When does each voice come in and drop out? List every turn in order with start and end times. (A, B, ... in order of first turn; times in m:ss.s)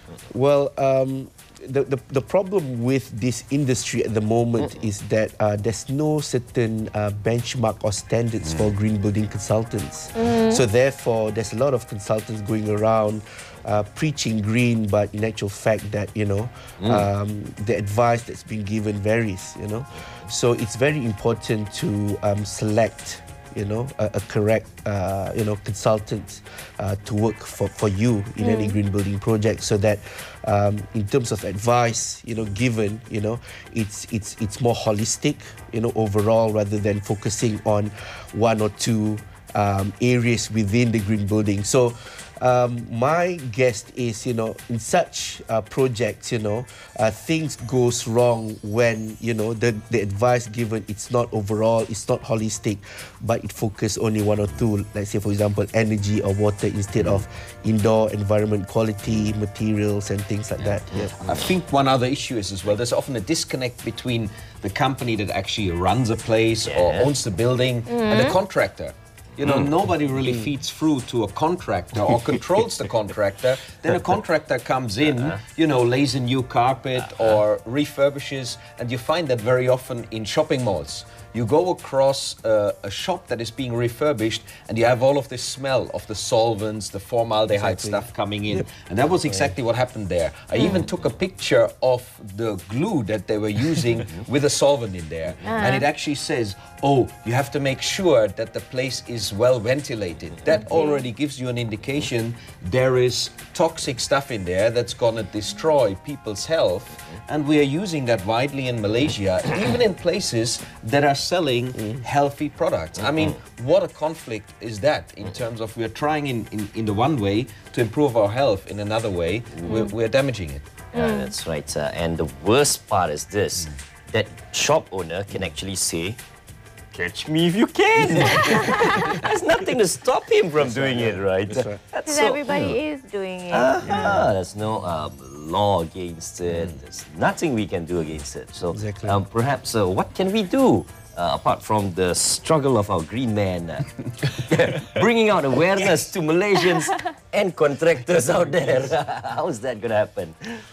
0:00.3-1:01.1 A
0:08.4-0:08.7 B
0:10.1-0:10.6 C
0:16.8-0:17.1 D
0:28.4-0:28.8 C
1:00.6-1:01.5 D
1:01.2-2:00.8 B
1:06.6-1:07.1 D
1:07.9-1:08.4 C
1:09.4-1:09.7 D
1:15.0-1:15.4 D
1:17.0-1:17.3 D
1:27.5-1:28.7 A
1:30.5-1:30.8 C
1:35.4-1:35.7 D
1:35.4-1:35.9 C
1:40.5-1:41.0 C
1:53.0-1:53.4 D
1:59.5-1:59.9 D
1:59.6-1:59.9 C
2:00.9-2:06.2 D
2:00.9-2:01.3 C
2:06.9-2:12.8 D
2:08.4-2:08.7 C
2:10.6-2:11.8 A
2:12.0-2:14.2 C
2:13.5-2:30.6 D
2:13.8-2:14.3 A
2:18.7-2:19.2 A